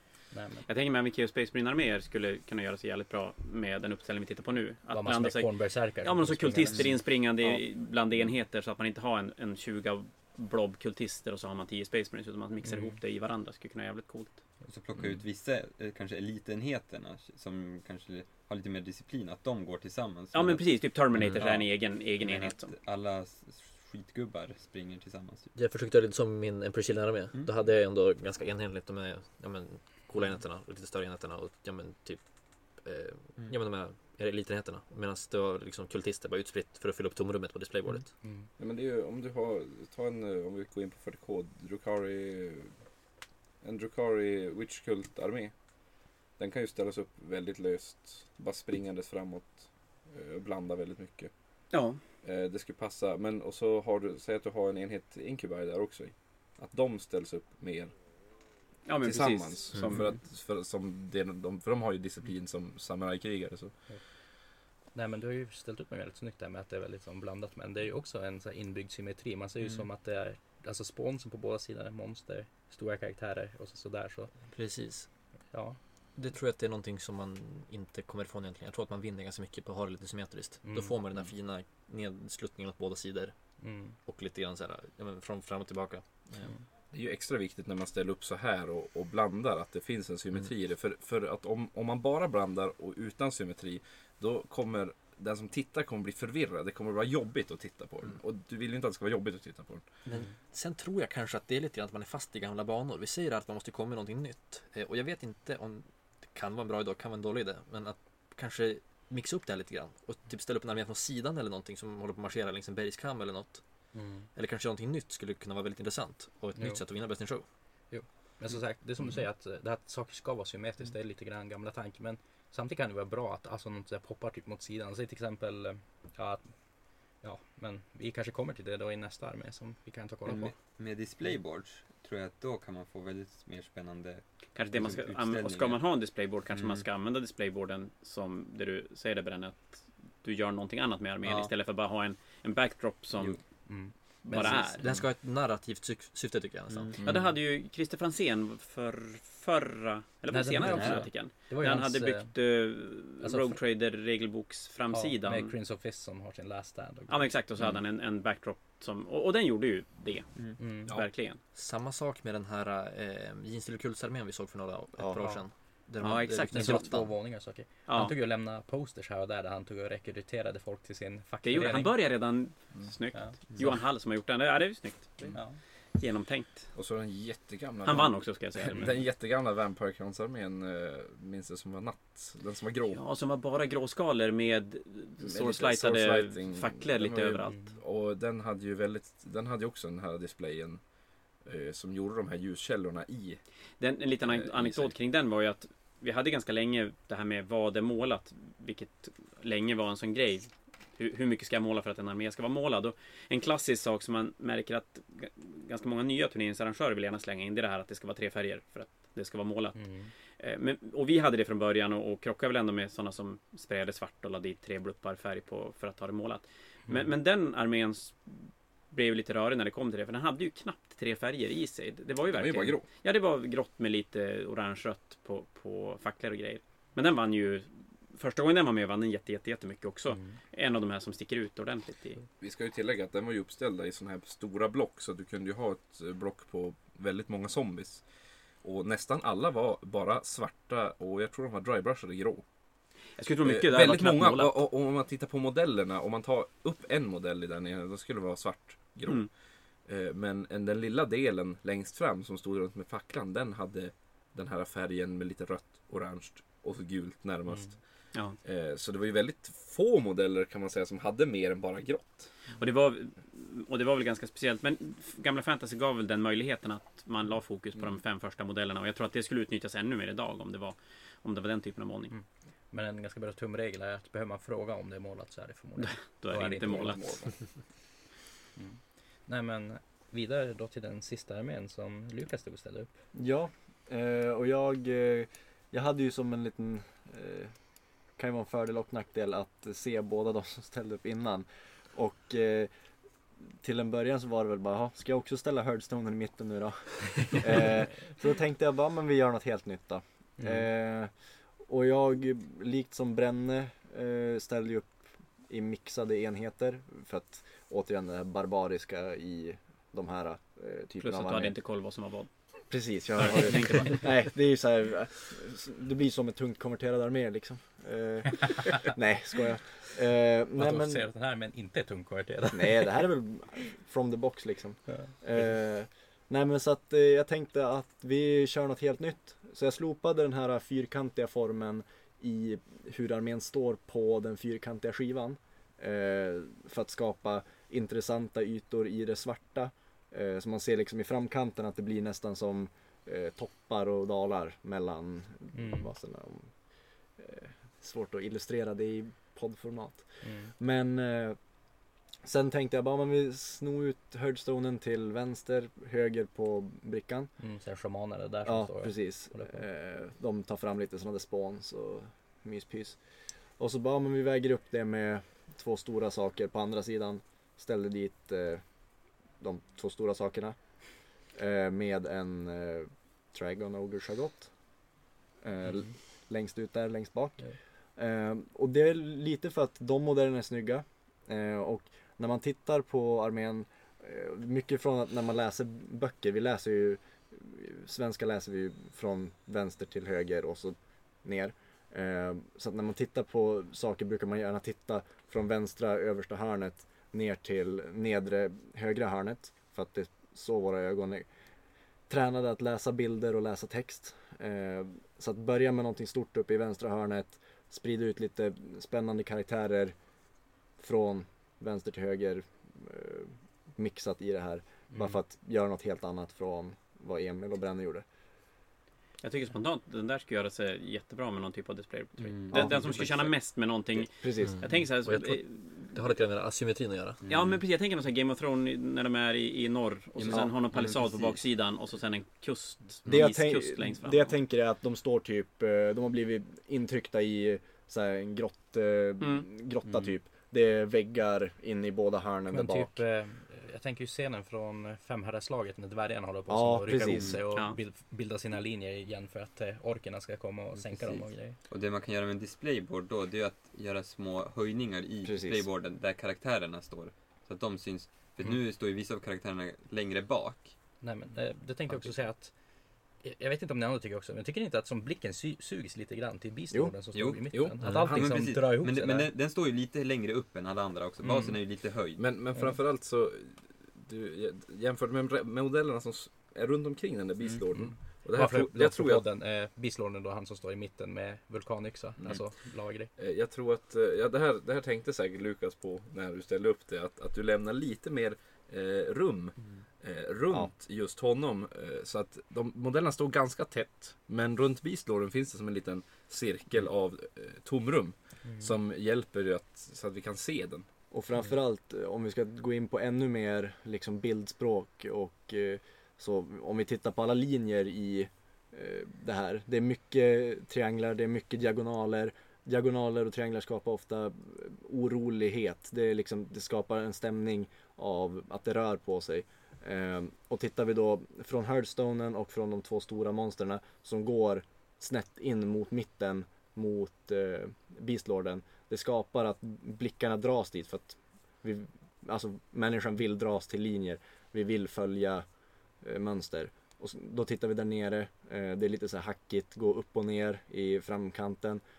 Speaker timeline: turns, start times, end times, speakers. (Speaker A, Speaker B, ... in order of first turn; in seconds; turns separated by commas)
Speaker A: 0.3-0.7, Speaker B: 0.7-14.4, Speaker A: 4.9-7.0, Speaker C: 6.7-7.1, Speaker A: 12.6-13.0, Speaker C: 14.6-25.5, Speaker B: 20.3-22.8, Speaker D: 21.1-21.4, Speaker D: 25.5-38.1, Speaker C: 27.3-27.7, Speaker A: 38.0-38.5, Speaker E: 38.5-42.8, Speaker E: 43.6-58.1, Speaker B: 51.7-52.0, Speaker B: 58.9-60.2, Speaker E: 59.0-63.9, Speaker A: 63.9-74.3, Speaker D: 74.5-75.3, Speaker A: 75.5-75.8, Speaker D: 76.1-86.5, Speaker A: 80.6-81.0, Speaker A: 83.6-84.0, Speaker E: 86.9-100.0, Speaker D: 100.0-117.5, Speaker A: 113.9-114.3, Speaker A: 116.5-116.8, Speaker A: 117.9-131.4, Speaker C: 130.2-136.9, Speaker B: 134.5-144.8, Speaker C: 141.2-141.5, Speaker C: 143.1-143.4, Speaker A: 143.7-144.9, Speaker C: 144.5-145.0, Speaker D: 144.8-147.0, Speaker A: 147.0-147.3, Speaker B: 147.0-155.5, Speaker A: 150.3-152.4, Speaker C: 150.5-151.1, Speaker A: 153.2-153.6, Speaker A: 154.9-157.3, Speaker B: 157.1-161.4, Speaker C: 160.3-160.6, Speaker A: 160.6-160.9, Speaker D: 161.5-167.1, Speaker A: 165.2-165.4, Speaker B: 166.0-166.9, Speaker A: 166.5-172.0, Speaker B: 167.9-168.2, Speaker B: 171.4-176.7, Speaker C: 173.5-173.8, Speaker A: 175.3-175.6, Speaker E: 176.7-183.0, Speaker B: 177.8-179.1, Speaker B: 182.9-187.7, Speaker E: 185.2-193.4, Speaker A: 187.4-187.7, Speaker B: 193.8-232.2, Speaker E: 194.2-194.9, Speaker A: 209.8-210.1, Speaker E: 222.3-222.8, Speaker A: 230.1-230.3, Speaker E: 232.4-242.5, Speaker B: 243.1-244.7, Speaker E: 243.4-262.3, Speaker B: 258.1-258.4, Speaker B: 262.5-272.1, Speaker A: 272.1-277.0, Speaker B: 275.8-277.4, Speaker E: 276.5-277.4, Speaker A: 278.5-282.9, Speaker F: 283.1-292.7, Speaker F: 293.5-311.6, Speaker A: 300.4-300.7, Speaker B: 311.0-314.2, Speaker F: 312.7-321.1, Speaker A: 320.5-323.1, Speaker F: 322.5-357.4, Speaker A: 324.9-325.5, Speaker A: 345.5-345.9, Speaker A: 350.2-350.5, Speaker A: 357.4-359.7, Speaker F: 358.4-401.3, Speaker F: 402.1-410.0, Speaker F: 410.8-418.1, Speaker A: 414.9-415.1, Speaker B: 419.2-426.1, Speaker C: 422.2-423.3, Speaker F: 422.5-422.8, Speaker F: 424.0-424.8, Speaker D: 424.4-427.2, Speaker C: 427.3-427.6, Speaker B: 427.3-434.4, Speaker C: 430.1-431.2, Speaker F: 433.1-443.0, Speaker B: 439.2-439.5, Speaker C: 439.9-440.1, Speaker A: 442.5-451.6, Speaker F: 446.5-447.4, Speaker C: 447.1-447.4, Speaker B: 447.5-447.8, Speaker C: 450.7-460.8, Speaker F: 455.2-455.7, Speaker A: 461.0-469.3, Speaker C: 461.9-462.2, Speaker C: 467.1-472.2, Speaker E: 467.5-468.4, Speaker D: 467.8-468.1, Speaker A: 471.2-471.6, Speaker E: 472.2-479.2, Speaker A: 477.7-483.1, Speaker E: 482.2-482.5, Speaker E: 483.1-500.9, Speaker A: 498.4-498.7, Speaker F: 501.1-541.8